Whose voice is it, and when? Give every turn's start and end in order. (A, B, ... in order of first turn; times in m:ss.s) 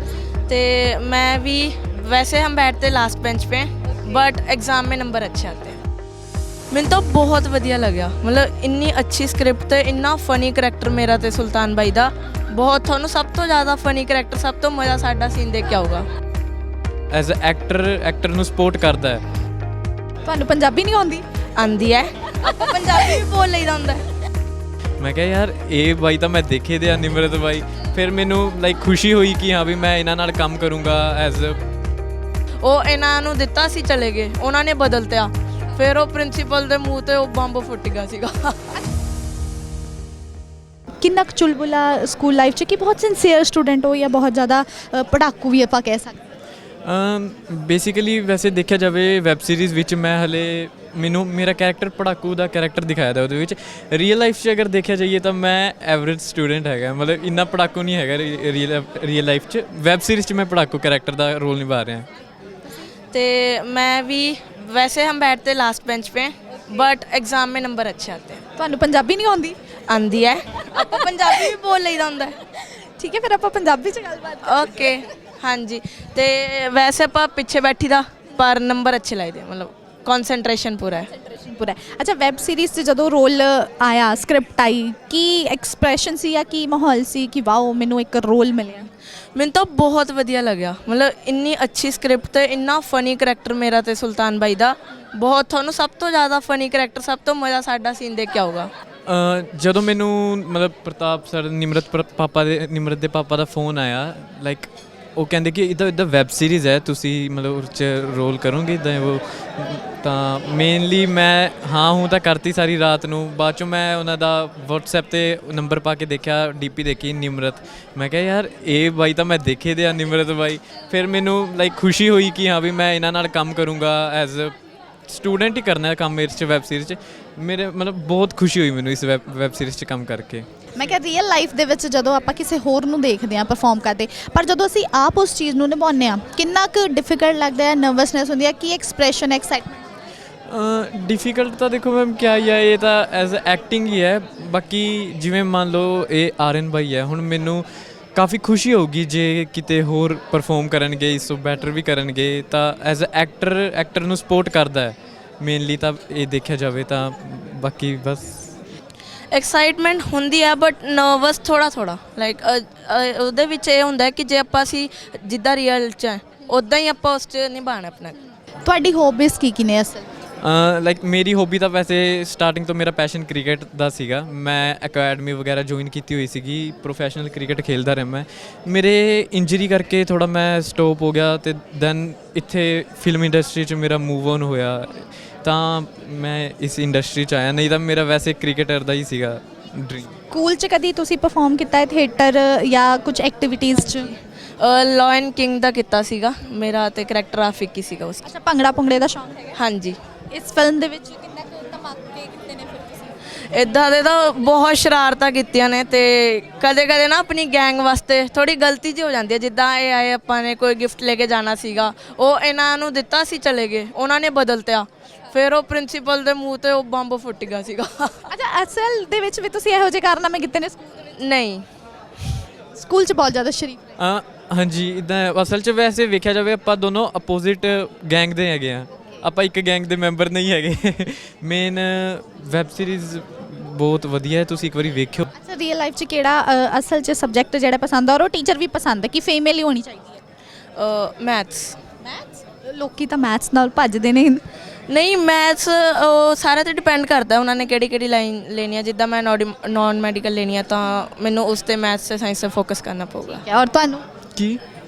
0:00.5-0:05.8 A
0:06.7-0:16.1 A
0:17.1-0:19.2 B
0:20.2-0:21.2 C
0:21.6-0:24.0 A
0:25.0-0:31.6 B
0:32.6-0:38.8 A
0:41.0-0:46.2 C
0:46.8-1:02.1 B
1:03.1-1:08.4 A
1:08.6-1:09.6 C
1:09.9-1:12.3 A
1:10.8-1:11.5 C
1:12.6-1:14.9 C
1:14.4-1:21.1 A
1:21.2-1:28.9 C
1:29.3-1:38.7 A
1:39.0-2:04.5 B
2:05.1-2:10.5 B
2:10.7-2:19.8 C
2:20.5-2:38.6 B
2:39.3-2:48.2 A
2:48.6-2:50.0 C
2:50.4-3:10.1 B
3:10.3-3:14.1 C
3:13.9-3:18.3 A
3:18.2-3:19.5 C
3:19.6-3:20.0 A
3:20.3-3:23.1 C
3:23.5-3:38.3 A
3:38.3-3:41.1 C
3:41.2-3:41.6 A
3:42.7-3:43.8 C
3:44.0-3:55.3 B
3:55.4-4:00.2 C
4:00.8-4:01.8 A
4:02.1-4:04.4 C
4:04.9-4:13.4 A
4:13.4-4:14.0 C
4:14.3-4:14.6 B